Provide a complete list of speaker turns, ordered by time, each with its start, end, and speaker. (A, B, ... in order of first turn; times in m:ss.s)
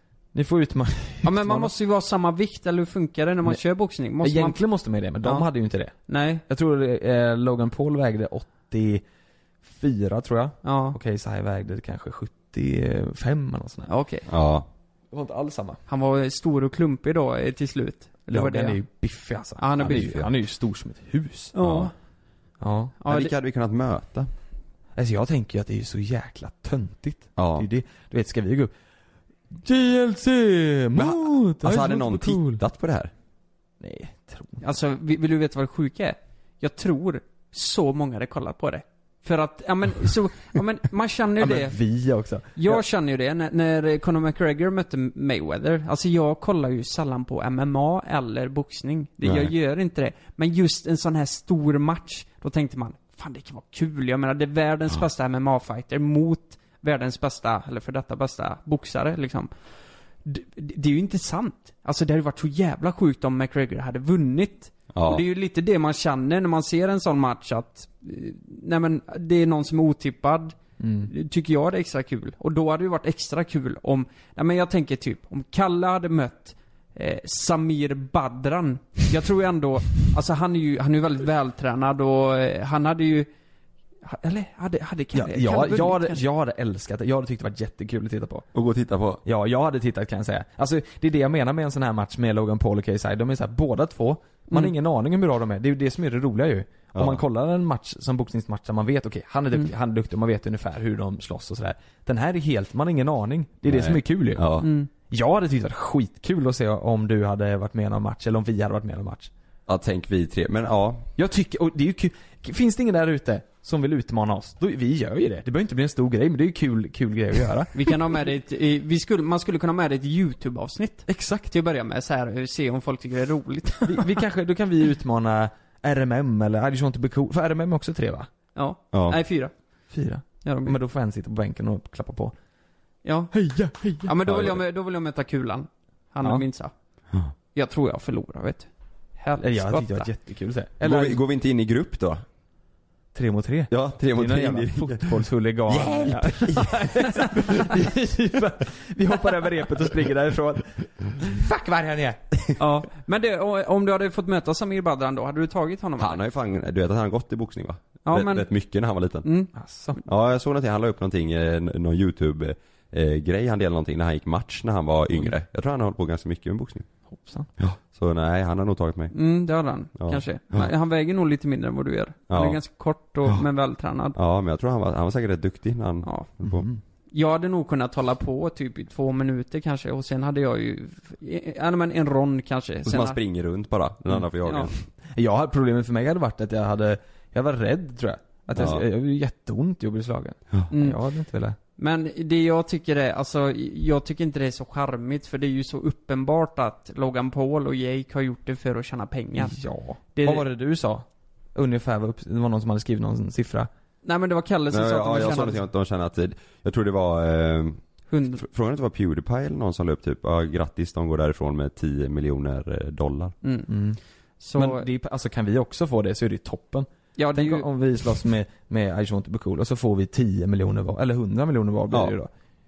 0:00.3-0:01.7 A
0:01.2-0:04.6 B
0:04.2-0:09.0 A
0:06.1-0:06.4 B
0:09.6-0:13.9 A
0:10.6-0:11.0 B
0:13.9-0:14.2 B
0:14.3-0:14.7 C
0:15.1-0:15.8 A
0:15.9-0:18.8 B
0:18.3-0:21.6 A
0:19.6-0:20.2 B
0:19.8-0:20.3 C
0:21.5-0:21.9 B
0:21.6-0:21.9 C
0:22.6-0:23.0 A
0:23.0-0:23.3 B
0:23.1-0:24.3 C
0:25.0-0:28.7 A
0:27.4-0:27.7 C
0:29.5-0:32.6 A
0:31.0-0:33.1 C
0:33.8-0:34.6 A
0:34.6-0:41.8 B
0:41.4-0:42.8 A
0:42.6-0:59.5 B
0:49.2-0:49.5 C
1:00.2-1:10.6 B
1:04.9-1:05.2 C
1:10.8-1:11.1 A
1:11.1-1:23.3 B
1:24.0-1:26.2 B
1:25.1-1:28.5 A
1:28.5-1:29.2 C
1:29.2-1:49.3 A
1:36.9-1:37.2 C
1:43.7-1:44.7 C
1:44.6-1:44.9 B
1:49.7-1:51.1 C
1:51.2-1:57.9 A
1:57.7-2:04.2 B
2:01.1-2:01.5 A
2:03.8-2:08.3 A
2:08.6-2:09.5 B
2:08.9-2:09.2 C
2:09.9-2:12.3 A
2:10.4-2:10.8 B
2:13.0-2:13.3 B
2:13.3-2:14.2 A
2:14.0-2:16.7 B
2:14.3-2:14.6 C
2:17.5-2:20.1 B
2:19.4-2:21.2 A
2:20.8-2:22.2 C
2:23.1-2:32.6 A
2:23.7-2:25.2 C
2:25.7-2:26.7 C
2:32.6-2:36.2 B
2:36.0-2:39.3 C
2:38.1-2:38.5 B
2:39.2-2:40.0 B
2:39.6-2:40.0 A
2:40.0-2:46.9 C
2:47.1-2:47.5 A
2:47.6-2:49.2 C
2:49.1-2:54.2 B
2:50.0-2:50.7 C
2:52.3-2:52.6 C
2:54.2-2:56.7 C
2:56.0-2:56.3 B
2:56.4-2:56.8 A
2:57.1-3:03.2 B
3:02.9-3:04.8 C
3:04.4-3:04.7 B
3:05.1-3:11.6 A
3:08.6-3:08.8 C
3:10.7-3:11.0 B
3:11.8-3:19.6 B
3:19.4-3:23.7 A
3:20.2-3:20.5 B
3:24.0-3:25.6 B
3:24.7-3:33.4 C
3:28.1-3:28.4 B
3:33.4-3:33.7 B
3:33.7-3:34.0 A
3:34.4-3:34.9 B
3:34.6-3:42.3 A
3:37.2-3:37.7 B
3:41.9-3:42.2 C